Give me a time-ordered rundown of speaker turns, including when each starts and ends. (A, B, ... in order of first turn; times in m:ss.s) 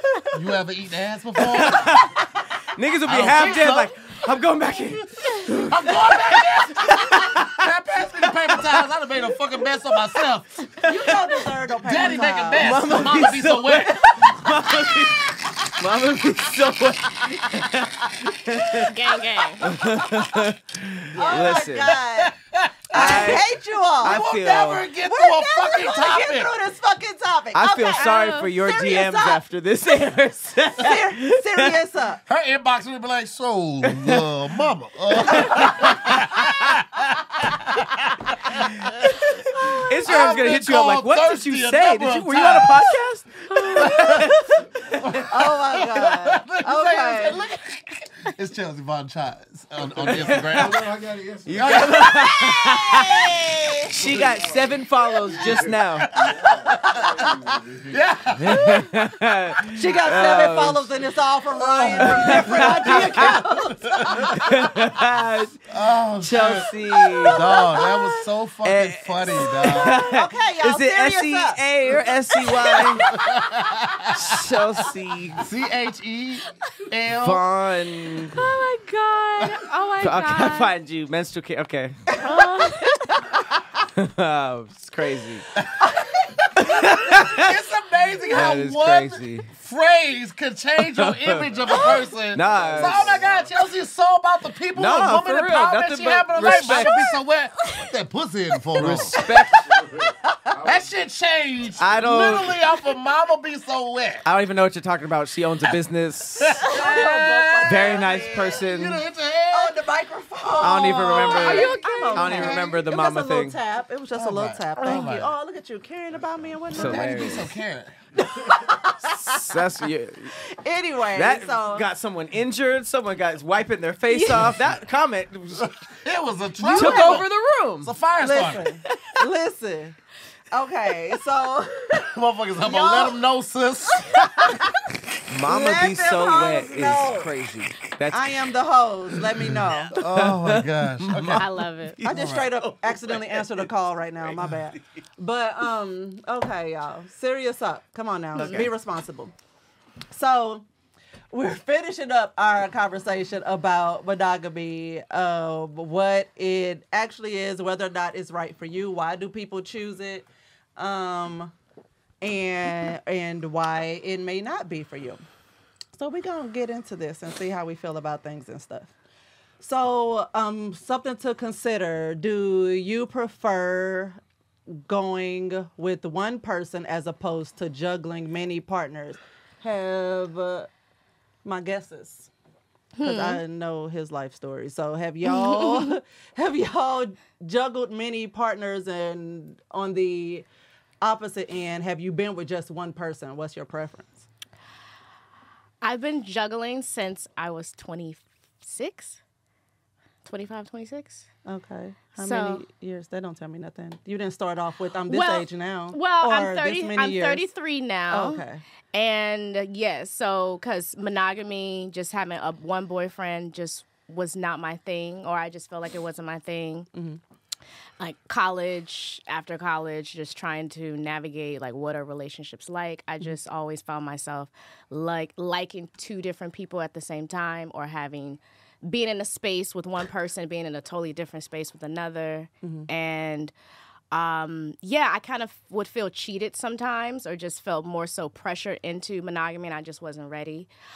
0:00.3-0:02.1 A
0:01.4-0:08.9 B
0:03.0-0:03.9 A
0:05.6-0:10.5 A
0:10.2-0:11.3 B
0:10.8-0:12.8 C
0:11.8-0:14.7 A
0:12.6-0:18.9 B
0:18.8-0:19.7 D
0:19.6-0:22.0 B
0:21.1-0:22.3 C
0:21.4-0:23.4 A
0:22.9-0:24.3 C
0:22.9-0:23.5 B
0:24.0-0:24.8 B
0:24.0-0:26.5 A
0:25.0-0:29.4 C
0:27.5-0:31.8 B
0:28.0-0:28.5 D
0:30.8-0:32.2 C
0:32.3-0:43.0 A
0:33.8-0:34.3 B
0:35.2-0:36.7 B
0:38.6-0:45.3 B
0:43.6-0:44.3 D
0:43.7-0:44.3 A
0:45.0-0:50.9 A
0:45.3-0:47.4 C
0:50.0-0:50.8 B
0:50.0-0:52.3 E
0:51.5-0:56.1 B
0:51.5-0:53.5 A
0:53.9-0:58.1 E
0:56.1-0:57.3 A
0:57.9-0:59.0 A
0:58.4-1:00.9 B
0:59.7-1:04.5 C
1:01.5-1:04.5 A
1:02.0-1:03.4 B
1:04.4-1:05.6 B
1:05.7-1:06.7 A
1:06.2-1:07.6 B
1:07.3-1:10.0 A
1:07.5-1:08.2 D
1:08.6-1:13.1 B
1:10.0-1:12.9 C
1:13.1-1:14.4 A
1:14.2-1:15.4 B
1:15.4-1:17.5 A
1:17.2-1:18.4 B
1:18.3-1:20.7 D
1:20.0-1:22.2 B
1:22.2-1:23.3 D
1:23.9-1:25.5 B
1:25.6-1:25.9 A
1:25.8-1:26.5 C
1:26.6-1:27.6 B
1:26.6-1:39.2 A
1:28.3-1:29.5 B
1:30.9-1:33.2 B
1:31.7-1:33.6 E
1:31.7-1:32.0 D
1:34.8-1:37.1 B
1:36.4-1:37.2 D
1:38.8-1:39.6 B
1:39.0-1:41.0 E
1:40.6-1:44.3 A
1:41.8-1:42.6 B
1:41.9-1:42.4 E
1:44.2-1:46.7 B
1:46.4-1:49.8 A
1:46.7-1:48.6 C
1:47.6-1:49.0 B
1:49.5-1:57.4 C
1:50.6-1:53.6 B
1:51.2-1:52.6 D
1:51.2-1:52.6 A
1:54.2-1:55.3 A
1:56.7-1:57.5 B
1:56.7-1:58.0 A
1:58.2-1:59.6 C
1:59.0-2:00.4 B
2:00.4-2:01.9 C
2:01.1-2:05.8 B
2:04.1-2:04.5 D
2:05.6-2:07.3 A
2:06.6-2:07.9 B
2:06.8-2:07.1 C
2:07.8-2:08.7 A
2:08.2-2:10.0 C
2:10.5-2:12.0 C
2:12.0-2:14.6 A
2:12.6-2:13.2 C
2:15.3-2:18.5 B
2:15.5-2:17.3 C
2:18.1-2:19.9 C
2:19.5-2:21.5 A
2:19.9-2:23.7 B
2:21.4-2:22.0 D
2:22.0-2:29.3 C
2:22.0-2:22.5 A
2:24.4-2:24.8 B
2:28.4-2:28.7 D
2:28.4-2:28.7 B
2:30.1-2:30.6 C
2:31.3-2:41.5 C
2:42.2-2:45.2 C
2:46.0-2:48.9 C
2:49.6-2:54.2 C
2:54.7-3:00.7 C
3:01.4-3:02.3 C
3:03.0-3:03.4 D
3:03.0-3:10.5 C
3:05.2-3:05.9 D
3:11.0-3:14.3 C
3:15.8-3:19.2 D
3:20.2-3:21.2 D
3:21.5-3:27.5 C
3:22.2-3:22.6 D
3:25.1-3:36.9 D
3:28.1-3:28.6 C
3:36.9-3:37.2 C
3:38.0-3:53.5 D
3:52.6-3:52.9 C
3:54.1-4:00.7 D